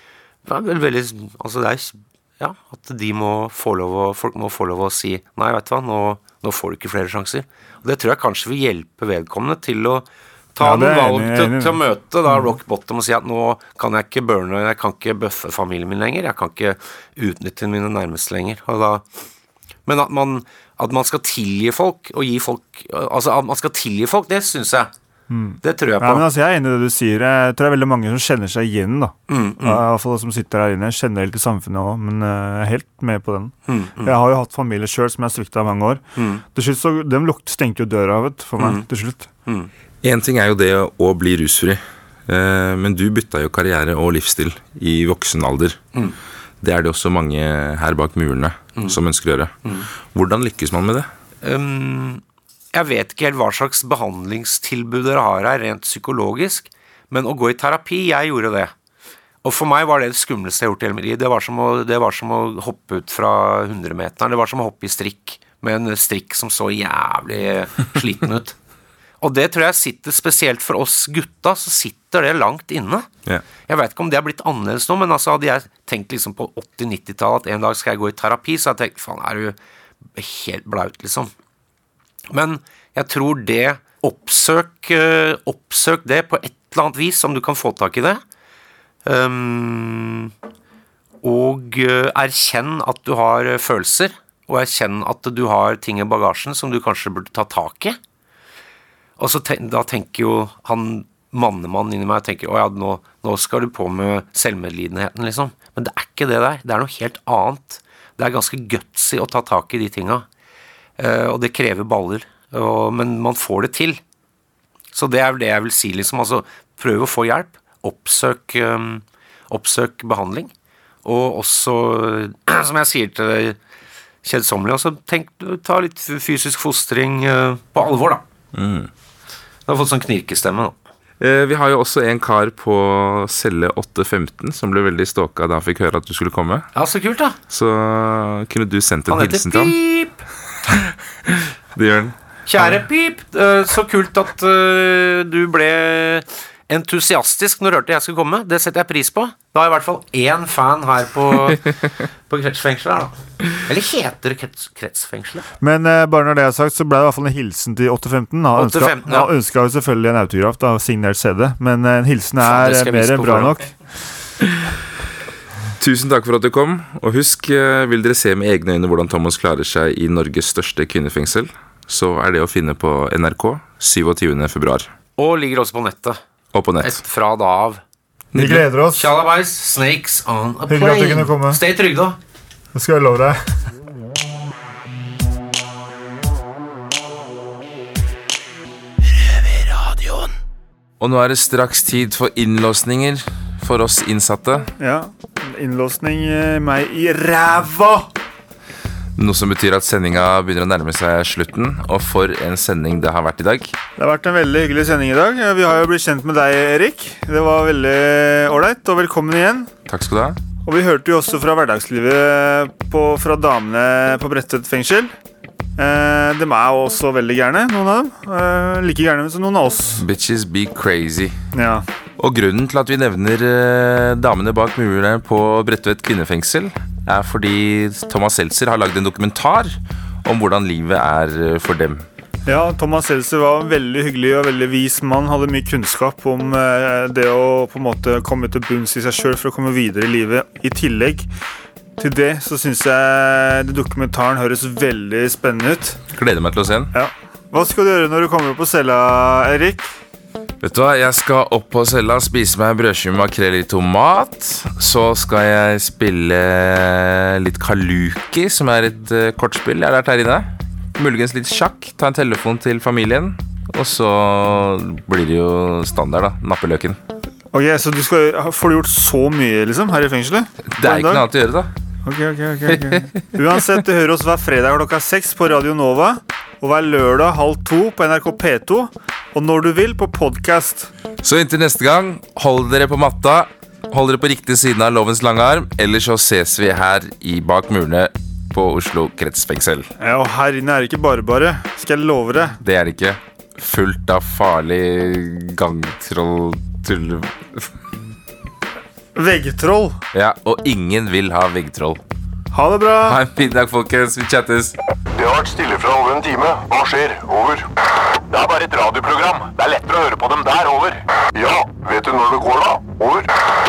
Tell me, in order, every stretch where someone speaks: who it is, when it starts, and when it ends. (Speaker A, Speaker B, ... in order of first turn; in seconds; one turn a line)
Speaker A: 0.5-19.0
Speaker B: 10.6-11.8
Speaker A: 19.9-24.9
Speaker B: 25.3-36.0
Speaker A: 25.6-26.3
Speaker A: 29.3-29.8
Speaker A: 33.7-34.1
Speaker A: 36.2-36.4
Speaker B: 36.5-39.3
Speaker A: 38.6-38.9
Speaker C: 40.0-45.8
Speaker C: 46.6-51.1
Speaker A: 51.4-52.2
Speaker A: 52.7-58.7
Speaker A: 59.4-68.6
Speaker A: 69.2-73.1
Speaker A: 73.7-79.6
Speaker A: 80.2-81.3
Speaker A: 82.3-88.2
Speaker A: 89.1-90.3
Speaker A: 91.2-98.0
Speaker A: 99.2-110.3
Speaker A: 111.0-114.0
Speaker A: 114.9-120.5
Speaker A: 121.0-123.6
Speaker A: 124.2-128.2
Speaker C: 128.5-128.9
Speaker A: 129.7-130.8
Speaker C: 131.2-136.7
Speaker A: 136.8-137.4
Speaker C: 137.5-139.7
Speaker A: 139.1-140.2
Speaker C: 140.7-142.7
Speaker A: 142.5-151.7
Speaker A: 152.3-155.5
Speaker B: 155.6-163.7
Speaker A: 158.6-159.3
Speaker A: 162.4-163.6
Speaker C: 165.8-174.9
Speaker A: 175.2-176.2
Speaker C: 176.5-177.0
Speaker A: 176.8-177.8
Speaker C: 178.3-178.7
Speaker B: 178.3-179.1
Speaker A: 178.9-182.2
Speaker B: 180.7-181.6
Speaker B: 182.7-183.4
Speaker C: 191.0-194.7
Speaker B: 194.8-198.1
Speaker C: 199.2-203.8
Speaker B: 204.0-209.7
Speaker C: 209.9-210.4
Speaker B: 210.7-215.1
Speaker B: 215.8-220.0
Speaker C: 220.0-221.3
Speaker B: 221.6-221.8
Speaker C: 222.2-232.1
Speaker B: 232.5-241.3
Speaker B: 242.0-246.0
Speaker C: 246.1-246.9
Speaker B: 246.9-249.9
Speaker C: 250.6-267.0
Speaker B: 267.5-271.2
Speaker C: 270.8-271.7
Speaker B: 272.1-280.9
Speaker C: 281.2-289.9
Speaker B: 290.0-292.6
Speaker C: 292.6-297.7
Speaker B: 299.1-300.0
Speaker C: 300.1-302.0
Speaker B: 302.5-303.2
Speaker C: 303.1-304.7
Speaker D: 305.1-307.7
Speaker D: 308.3-313.3